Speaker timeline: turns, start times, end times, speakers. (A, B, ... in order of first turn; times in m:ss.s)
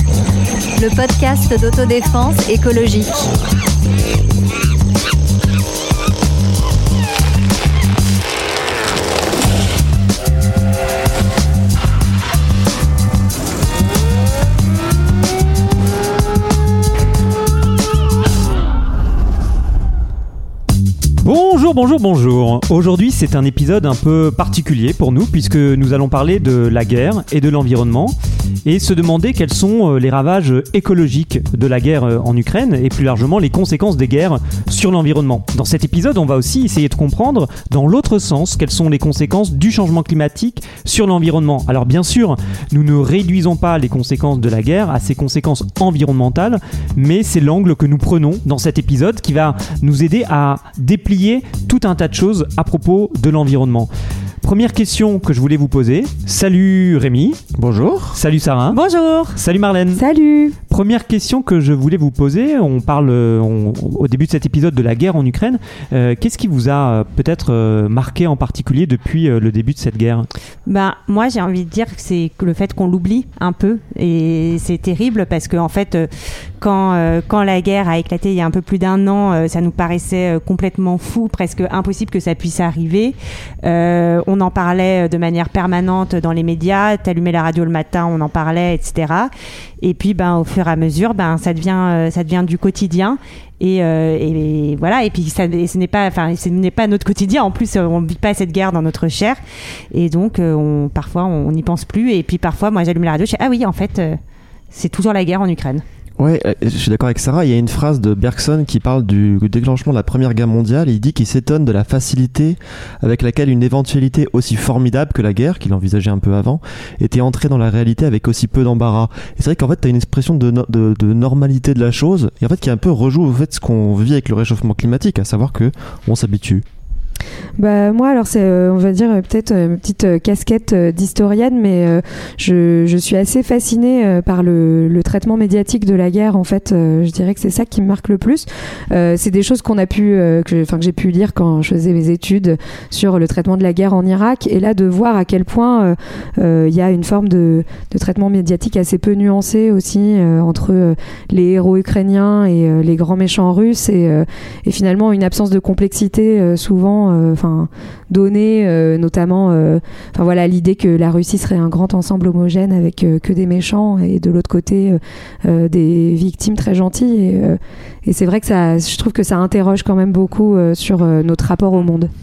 0:00.8-0:03.2 A
0:21.2-0:53.9 B
0:54.4-0:57.4 B
0:57.5-0:58.2 C
0:58.1-0:58.8 B
0:58.7-0:59.4 D
0:59.3-1:00.0 B
1:00.0-1:00.6 E
1:00.7-1:10.3 B
1:10.6-1:16.1 D
1:16.6-1:39.4 D
1:39.9-1:44.2 D
1:44.7-1:45.8 D
1:46.2-2:06.6 C
2:07.6-2:52.1 E